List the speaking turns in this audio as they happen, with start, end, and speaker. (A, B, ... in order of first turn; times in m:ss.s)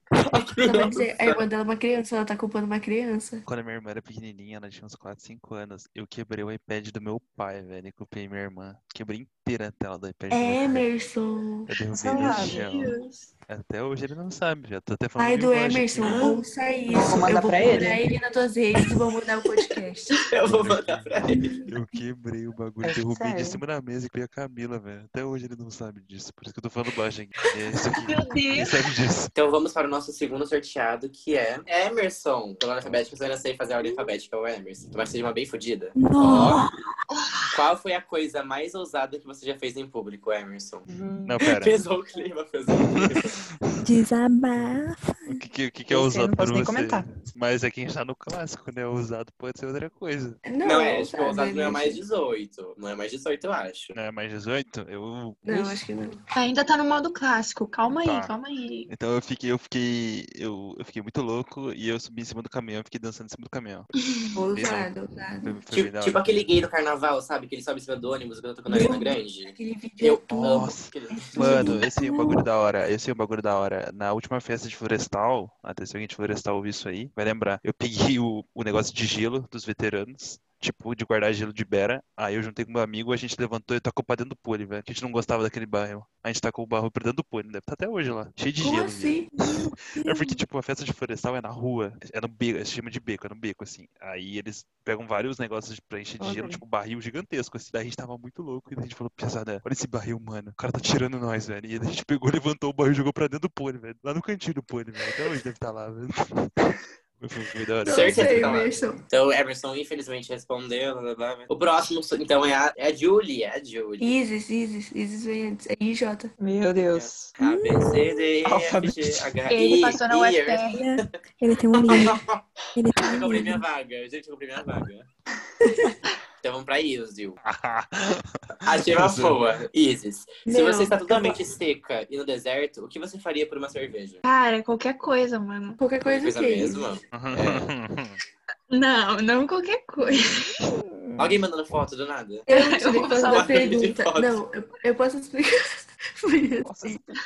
0:00.3-0:01.4 A
0:00.6-0:03.4 B
0:03.5-0:10.9 C
0:10.3-0:11.7 B
0:11.7-0:13.0 C
0:11.9-0:12.6 D
0:12.2-0:13.3 E
0:13.5-0:16.3 C
0:15.2-0:20.3 B
0:16.9-0:18.0 D
0:20.3-0:21.4 A
0:20.4-0:29.3 C
0:21.3-0:21.6 F
0:22.8-0:23.6 D
0:28.0-0:28.7 E
0:29.4-0:36.6 A
0:35.9-0:36.7 F
0:37.5-0:40.9 A
0:40.9-0:41.4 D
0:41.3-0:41.8 C
0:41.4-0:43.4 A
0:42.8-0:43.9 C
0:43.8-0:45.4 F
0:45.3-0:50.4 C
0:45.9-0:47.1 D
0:50.4-0:52.0 B
0:50.6-0:53.9 A
0:54.0-0:55.8 C
0:55.4-0:56.2 B
0:56.4-0:58.9 E
0:57.9-0:58.3 C
0:58.9-1:03.9 C
1:04.4-1:05.6 B
1:04.5-1:06.3 C
1:05.7-1:11.8 A
1:08.7-1:12.4 B
1:10.3-1:29.3 C
1:28.6-1:29.4 B
1:29.5-1:30.4 F
1:30.0-1:48.7 C
1:36.2-1:36.6 D
1:47.8-1:49.0 B
1:47.8-1:54.1 A
1:54.0-1:56.3 B
1:56.4-1:57.4 D
1:56.8-2:01.0 A
1:57.4-1:58.4 F
1:58.4-1:59.2 D
1:59.5-2:00.8 E
2:00.7-2:03.6 F
2:01.7-2:02.4 A
2:03.0-2:05.1 A
2:05.6-2:06.0 B
2:06.4-2:07.4 A
2:07.4-2:09.7 C
2:08.6-2:14.2 A
2:10.4-2:11.4 B
2:14.2-2:15.8 E
2:15.8-2:17.0 B
2:16.0-2:17.7 A
2:17.1-2:18.2 C
2:18.7-2:20.6 E
2:21.2-2:22.5 A
2:22.5-2:25.5 B
2:22.5-2:23.8 E
2:23.3-2:24.4 A
2:26.2-2:27.0 B
2:26.8-2:27.1 A